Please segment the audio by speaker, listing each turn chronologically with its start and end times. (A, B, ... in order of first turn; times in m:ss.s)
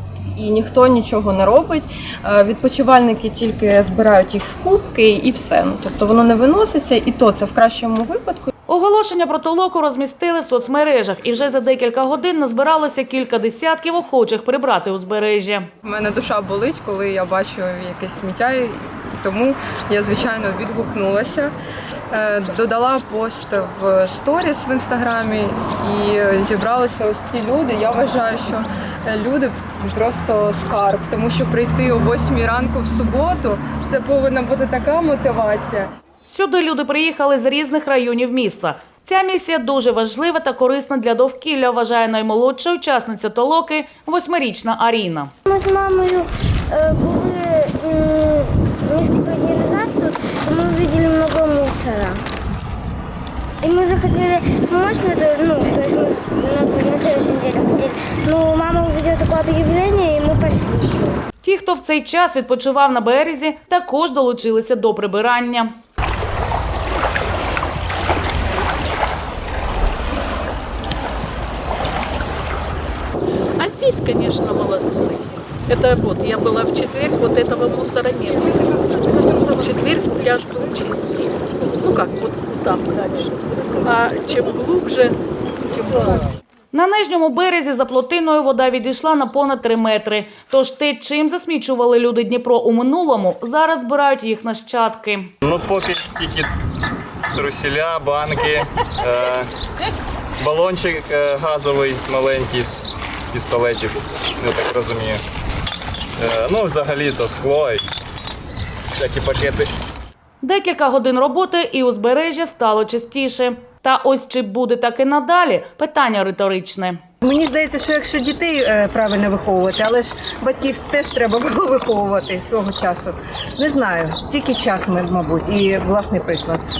0:00.4-0:08.5 A
0:08.7-0:15.7 B
0:15.8-0:21.5 C
0:22.1-0:35.9 C
0:36.2-0:45.3 B
0:45.5-0:52.2 D
0:53.6-1:01.2 D
1:01.4-1:05.7 B
1:13.6-1:18.6 E
1:19.2-1:25.1 E
1:25.7-1:26.2 E
1:26.7-1:35.3 B
1:35.4-1:36.5 F
1:37.3-1:39.5 F
1:40.4-1:45.2 F
1:46.2-1:47.8 F
1:48.9-1:49.7 F
1:50.4-1:57.0 B
1:57.2-2:06.6 G